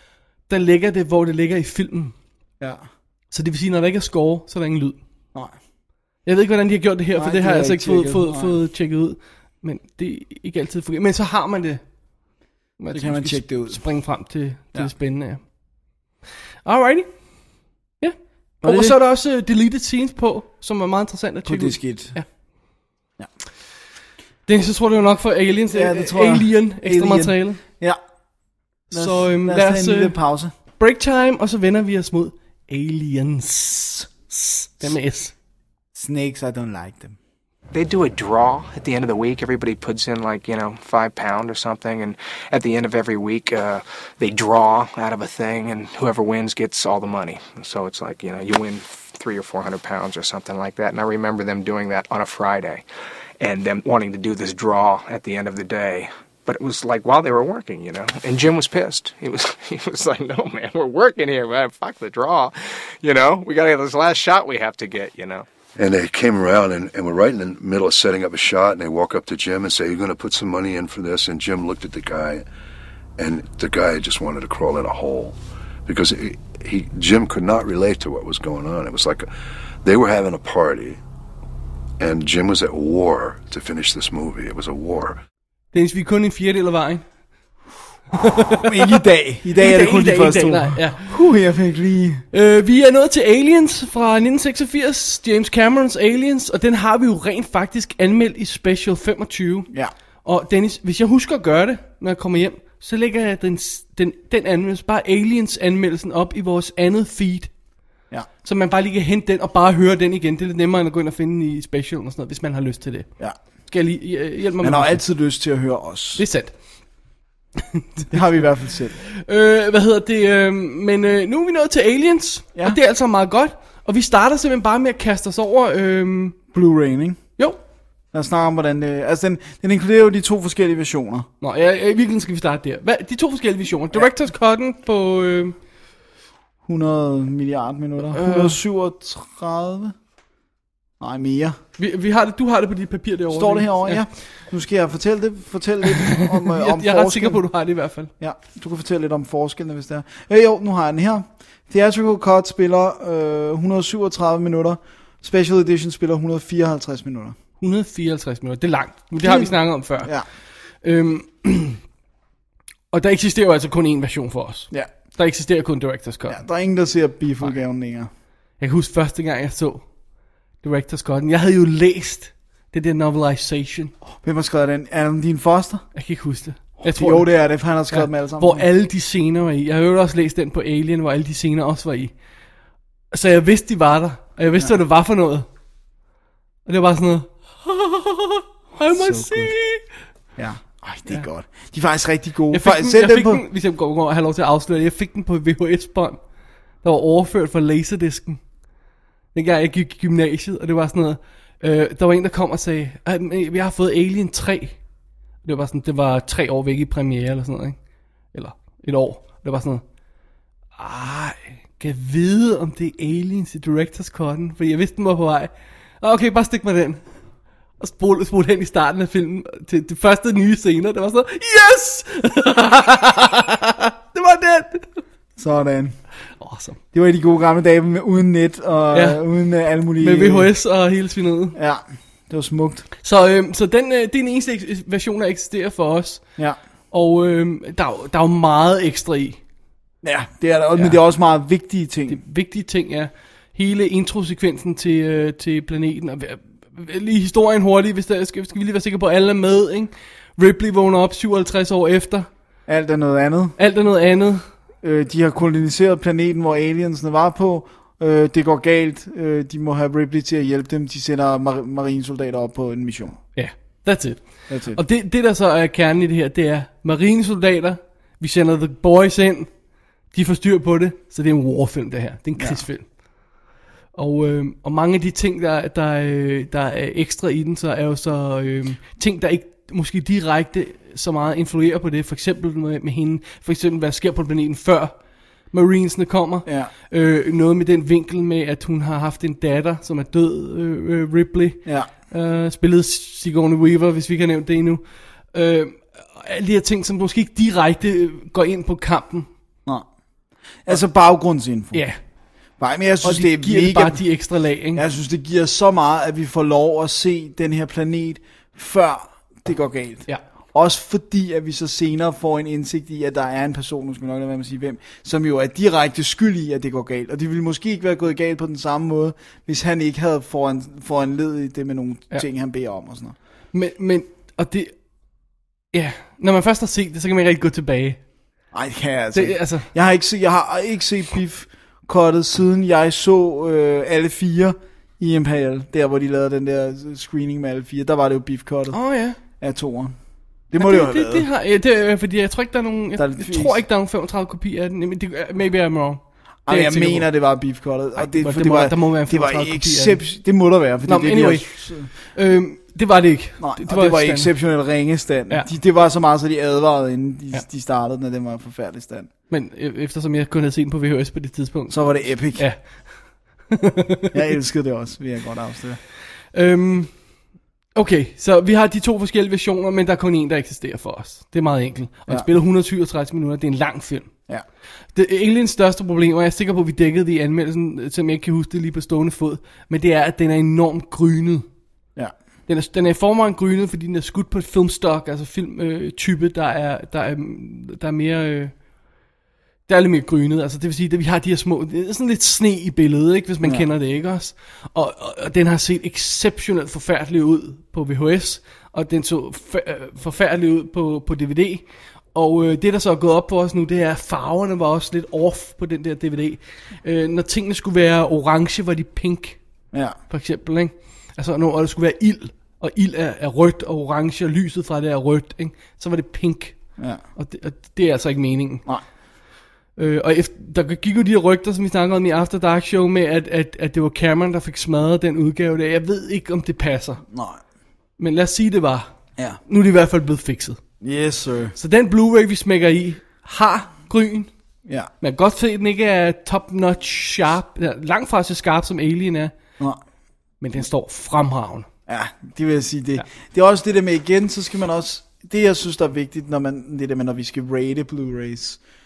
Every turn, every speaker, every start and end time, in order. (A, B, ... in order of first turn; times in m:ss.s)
0:00.5-0:02.1 A
0:03.3-0:05.0 A
0:06.2-0:11.8 A
0:07.1-0:08.6 B
0:12.8-0:15.4 A
0:12.9-0:13.8 B
0:16.6-0:17.1 A
0:18.0-0:22.2 A
0:18.6-0:19.0 B
0:21.4-0:22.2 B
0:24.4-0:27.6 A
0:25.7-0:28.0 B
0:28.9-0:30.5 B
0:28.9-0:30.2 A
0:30.7-0:35.3 A
0:35.9-0:37.2 B
0:37.7-0:52.8 C
0:53.4-1:05.4 C
1:05.8-1:12.4 D
1:13.2-1:19.3 D
1:19.8-1:21.0 D
1:22.0-1:25.2 D
1:25.7-1:27.0 A
1:28.1-1:29.0 A
1:28.5-1:32.2 B
1:29.5-1:31.1 A
1:32.3-1:39.7 A
1:40.2-1:47.5 A
1:48.4-1:53.1 A
1:53.7-1:55.0 A
1:54.6-1:56.2 B
1:56.2-1:56.5 A
1:57.7-1:58.4 A
1:58.1-1:59.0 B
1:59.1-2:06.4 A
2:06.5-2:07.2 B
2:08.1-2:11.3 B
2:11.4-2:15.6 A
2:16.6-2:20.0 B
2:18.0-2:18.6 A
2:21.0-2:21.6 B
2:21.8-2:24.0 A
2:23.3-2:27.4 B
2:25.9-2:28.1 A
2:28.2-2:37.4 B
2:37.6-2:40.1 A
2:39.2-2:40.2 B
2:40.8-2:41.8 A
2:42.9-2:46.4 A
2:46.3-2:48.1 B
2:48.6-2:49.8 A
2:50.6-2:53.9 A
2:54.1-2:55.8 B
2:55.9-2:57.3 A
2:56.8-2:58.6 B
2:57.9-3:02.1 A
3:03.1-3:05.4 A
3:06.6-3:09.8 A
3:08.8-3:09.5 B
3:10.4-3:13.4 B
3:12.5-3:16.2 A
3:16.8-3:18.4 A
3:19.3-3:24.8 A
3:25.4-3:27.8 A
3:28.3-3:29.8 A
3:30.8-3:35.5 A
3:36.0-3:37.0 A
3:37.8-3:45.0 A
3:45.4-3:46.0 B
3:46.4-3:46.8 A
3:46.9-3:50.5 B
3:48.9-3:49.2 A
3:50.0-3:51.6 A
3:51.5-3:52.9 B
3:53.0-3:56.2 A
3:56.9-3:59.4 A
4:00.0-4:02.2 B
4:02.1-4:12.3 A
4:12.7-4:13.6 B
4:13.6-4:14.4 A
4:14.8-4:23.2 B
4:23.4-4:29.5 A
4:24.5-4:24.8 B
4:30.1-4:32.9 A
4:32.4-4:32.6 B
4:33.9-4:44.9 A
4:45.5-4:59.3 A
4:46.4-4:46.7 B
4:51.6-4:51.9 B
5:00.6-5:01.8 B
5:01.7-5:02.0 A
5:02.6-5:04.0 B
5:03.0-5:04.8 A
5:04.7-5:23.1 B
5:23.5-5:24.7 A
5:25.7-5:28.0 A
5:28.5-5:38.8 B
5:29.1-5:29.7 A
5:38.7-5:39.2 A
5:39.3-5:40.0 B
5:40.5-5:41.3 B
5:40.6-5:47.1 A
5:43.0-5:43.6 B
5:46.4-5:51.9 B
5:48.0-5:50.0 A
5:50.8-5:54.3 A
5:53.4-5:59.1 B
5:59.3-6:04.1 A
6:01.7-6:02.5 B
6:04.1-6:05.8 B
6:06.3-6:06.9 A
6:07.7-6:14.1 A
6:14.9-6:21.4 A
6:22.5-6:28.5 A
6:29.7-6:49.4 A
6:49.7-6:50.0 B
6:50.1-6:56.6 A
6:57.2-6:58.6 A
6:59.8-7:07.0 A
7:07.1-7:07.4 B
7:08.0-7:08.9 A
7:09.5-7:10.6 A
7:10.8-7:11.5 B
7:11.6-7:14.3 A
7:15.0-7:19.3 A
7:20.4-7:21.7 A
7:21.9-7:28.6 B